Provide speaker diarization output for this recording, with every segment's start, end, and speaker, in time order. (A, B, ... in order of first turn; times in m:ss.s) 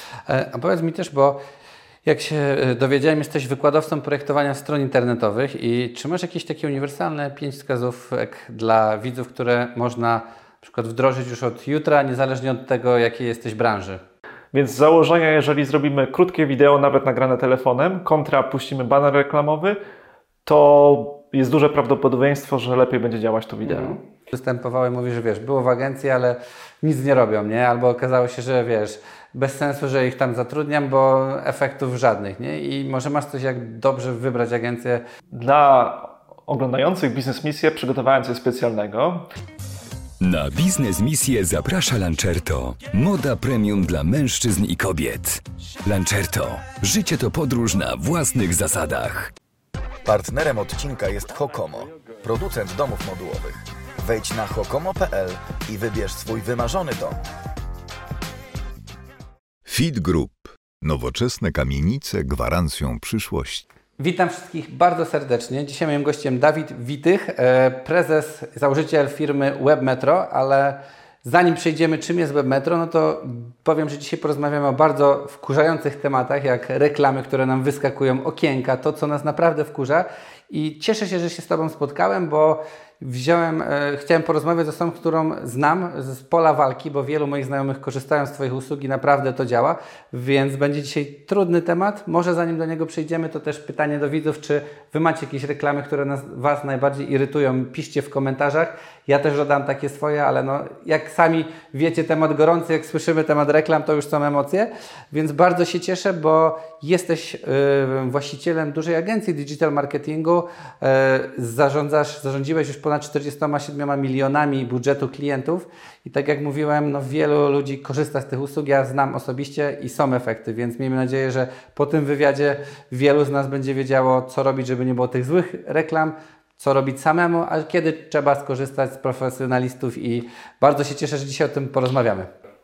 0:00.3-0:01.4 A
0:02.0-0:14.0 A
0:14.5-0:19.8 B
0:20.5-0:24.0 B
0:23.6-0:35.0 A
0:35.3-0:39.3 B
0:40.2-0:49.3 C
0:50.1-0:57.2 D
0:59.7-1:03.6 E
1:04.0-2:12.3 A